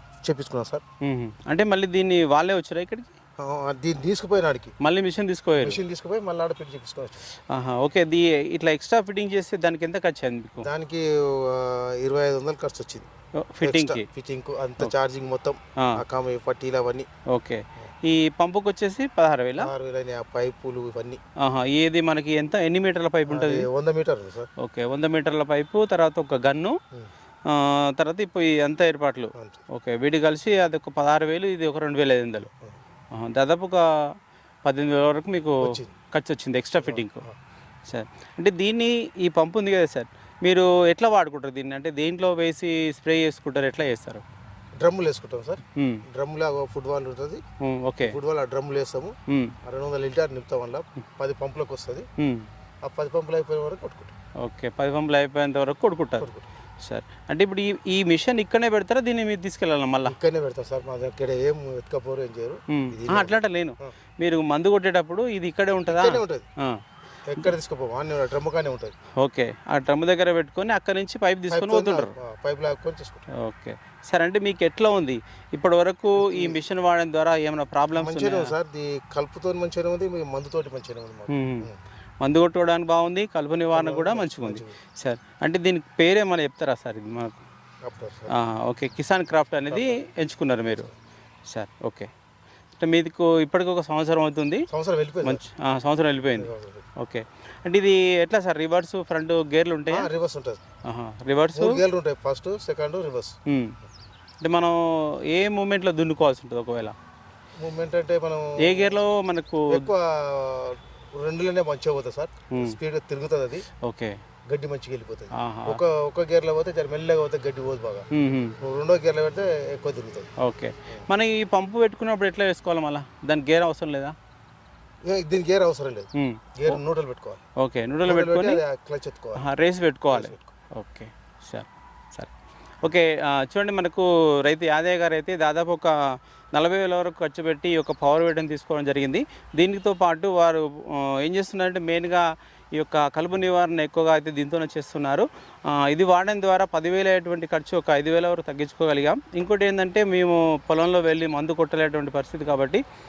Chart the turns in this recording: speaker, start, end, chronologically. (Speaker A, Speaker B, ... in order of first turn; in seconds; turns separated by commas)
Speaker A: 0.2-0.8, Speaker B: 1.0-3.1, Speaker A: 3.4-4.7, Speaker B: 4.8-5.8, Speaker A: 5.6-7.2, Speaker B: 7.5-10.7, Speaker A: 10.6-13.1, Speaker B: 13.4-14.0, Speaker A: 13.6-17.1, Speaker B: 17.3-19.7, Speaker A: 19.6-21.2, Speaker B: 21.4-23.7, Speaker A: 23.3-24.5, Speaker B: 24.6-26.8, Speaker B: 27.5-32.5, Speaker B: 33.1-33.9, Speaker B: 34.6-37.2, Speaker A: 35.6-35.9, Speaker A: 36.8-37.3, Speaker B: 37.9-44.2, Speaker A: 44.8-45.6, Speaker B: 45.8-46.0, Speaker A: 46.1-47.4, Speaker B: 47.6-48.1, Speaker A: 48.0-49.1, Speaker B: 49.3-49.6, Speaker A: 49.6-52.0, Speaker B: 52.2-52.5, Speaker A: 52.9-54.1, Speaker B: 54.4-56.3, Speaker A: 56.2-56.5, Speaker B: 56.8-60.1, Speaker A: 60.0-63.9, Speaker B: 62.7-66.8, Speaker A: 65.9-66.5, Speaker A: 67.3-68.9, Speaker B: 69.2-72.1, Speaker A: 71.5-73.3, Speaker B: 73.4-78.5, Speaker A: 76.2-76.6, Speaker A: 77.9-81.8, Speaker B: 81.3-81.7, Speaker B: 82.2-87.4, Speaker A: 83.7-84.7, Speaker A: 87.8-88.3, Speaker B: 88.3-90.9, Speaker A: 89.7-90.0, Speaker B: 91.5-92.1, Speaker B: 92.8-94.7, Speaker A: 94.7-95.4, Speaker B: 95.2-100.1, Speaker A: 96.3-96.8, Speaker A: 99.9-100.6, Speaker B: 100.8-101.8, Speaker A: 101.5-103.3, Speaker B: 103.5-103.7, Speaker B: 104.4-104.8, Speaker B: 105.3-106.9, Speaker A: 107.6-109.0, Speaker B: 108.6-109.9, Speaker A: 109.7-113.6, Speaker B: 112.5-112.8, Speaker B: 113.8-114.2, Speaker A: 114.5-118.1, Speaker B: 115.3-115.8, Speaker B: 118.1-118.6, Speaker A: 118.6-120.3, Speaker B: 120.4-124.2, Speaker A: 125.0-127.4, Speaker B: 126.1-126.8, Speaker B: 127.6-128.6, Speaker A: 128.1-129.4, Speaker B: 129.4-132.3, Speaker A: 130.1-130.5, Speaker B: 132.8-135.9, Speaker B: 136.5-152.8